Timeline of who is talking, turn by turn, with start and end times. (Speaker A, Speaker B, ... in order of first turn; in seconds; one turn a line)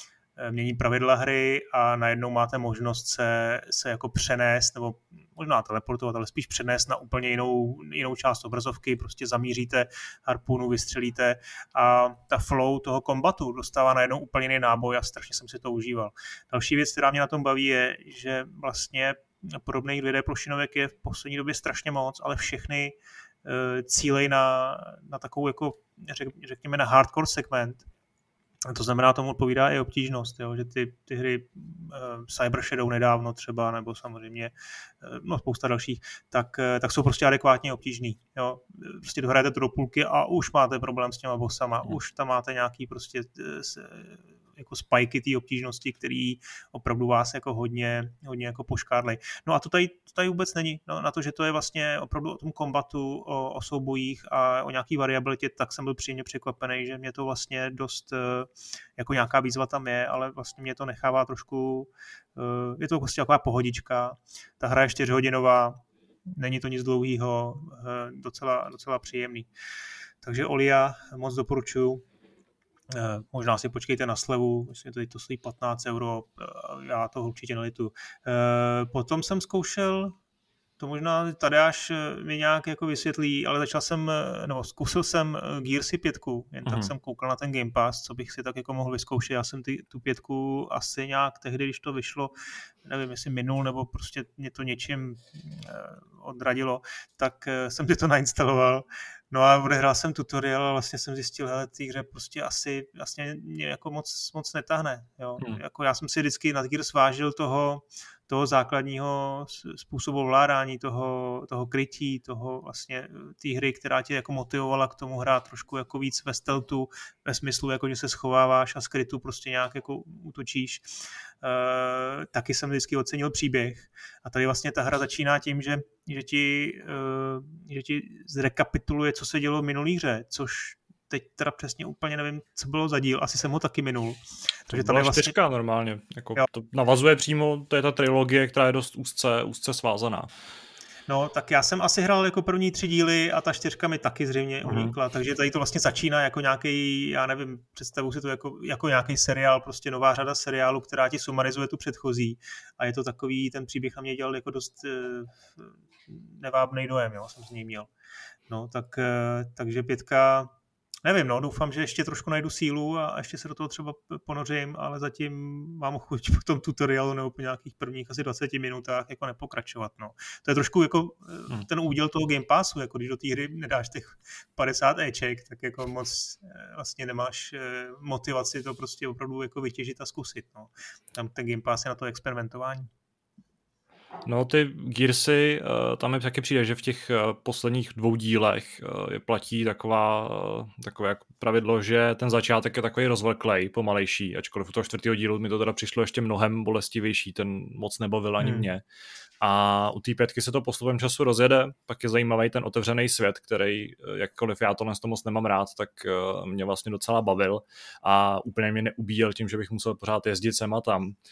Speaker A: 0.4-27.9
Speaker A: 28.7-69.5
Speaker A: 70.2-72.0
Speaker A: 72.9-80.2
Speaker A: 80.8-92.3
Speaker B: 86.6-86.9
Speaker A: 92.8-120.9
Speaker A: 121.4-135.3
Speaker B: 134.7-140.3
Speaker A: 141.1-157.9
Speaker B: 144.7-144.9
Speaker A: 158.5-160.5
Speaker A: 161.0-182.9
Speaker B: 184.2-198.8
Speaker A: 198.4-198.7
Speaker B: 199.4-211.2